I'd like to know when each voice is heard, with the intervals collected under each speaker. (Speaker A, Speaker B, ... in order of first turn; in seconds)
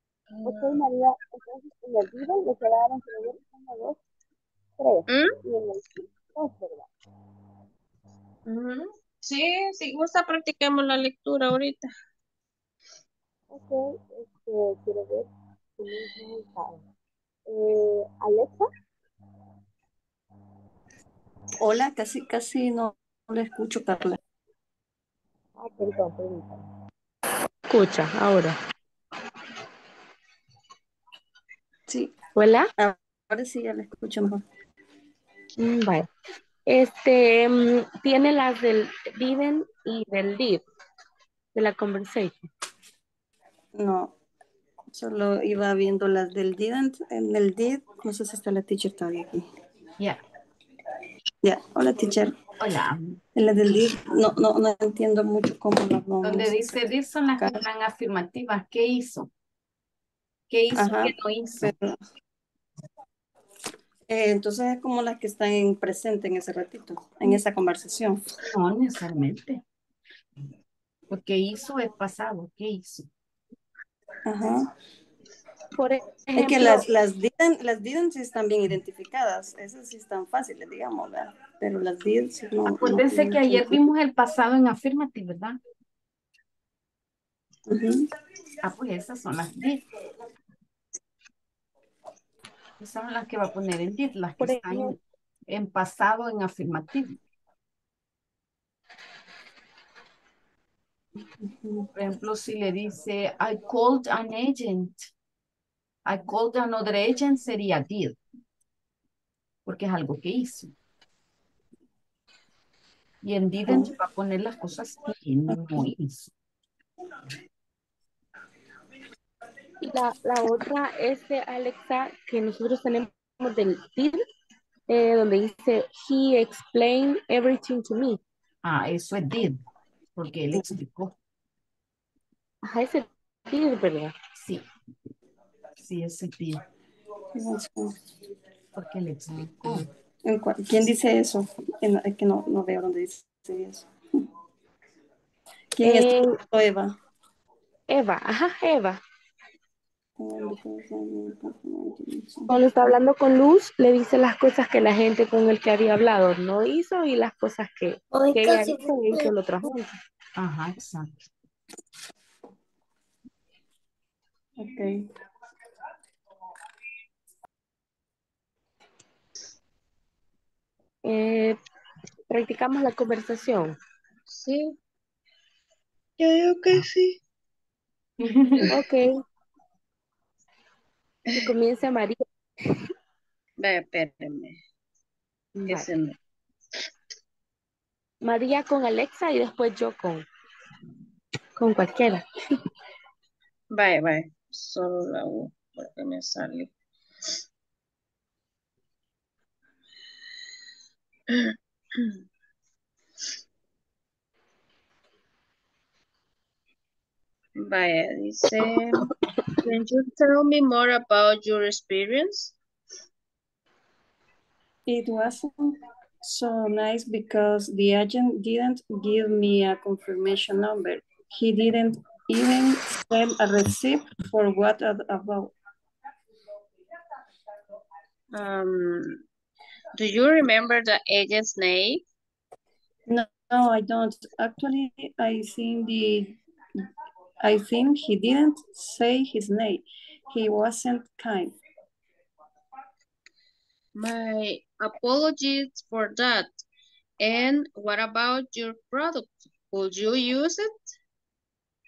Speaker A: 0.3-0.8, 5.1-5.3, 8.5-11.9, 174.3-174.7, 176.2-177.2, 183.6-184.6, 185.7-186.2, 193.7-196.7, 207.6-209.0, 209.6-212.6, 228.3-229.2, 230.0-232.0, 244.0-246.6, 247.2-250.7
Speaker B: 0.4-4.0, 4.8-6.9, 13.5-15.3, 15.8-16.8, 17.5-18.7, 25.6-26.6
Speaker C: 21.6-24.2, 32.8-34.4, 43.7-44.1, 44.9-49.4, 51.4-52.3, 53.3-56.8, 60.7-62.0, 64.1-68.2, 74.2-74.6, 76.3-83.8, 87.7-88.0, 101.4-101.9, 137.3-137.9, 140.2-143.9, 145.7-146.9, 150.2-152.5, 164.6-164.9, 214.9-225.5, 233.1-236.4, 237.4-241.6
Speaker D: 27.7-28.6, 32.4-32.7, 35.6-36.1, 36.7-40.6, 41.5-42.5, 75.7-76.9, 94.4-94.9, 119.8-124.2, 124.9-128.2, 132.6-134.1, 145.8-146.4, 147.9-149.0, 152.5-159.9, 171.0-171.6, 172.3-173.8, 178.7-179.1, 181.3-182.2, 188.2-190.2, 191.6-192.2
Speaker E: 52.6-53.2, 56.2-59.3, 60.5-61.8, 68.4-69.6, 71.1-73.1, 82.7-85.6, 88.6-89.8, 92.8-95.0, 95.5-97.2, 101.9-105.1, 106.0-108.2, 109.7-110.7, 113.2-116.3, 128.6-129.6, 130.2-131.1, 134.3-134.6, 135.8-136.6, 138.7-139.8, 160.4-161.2, 178.2-178.7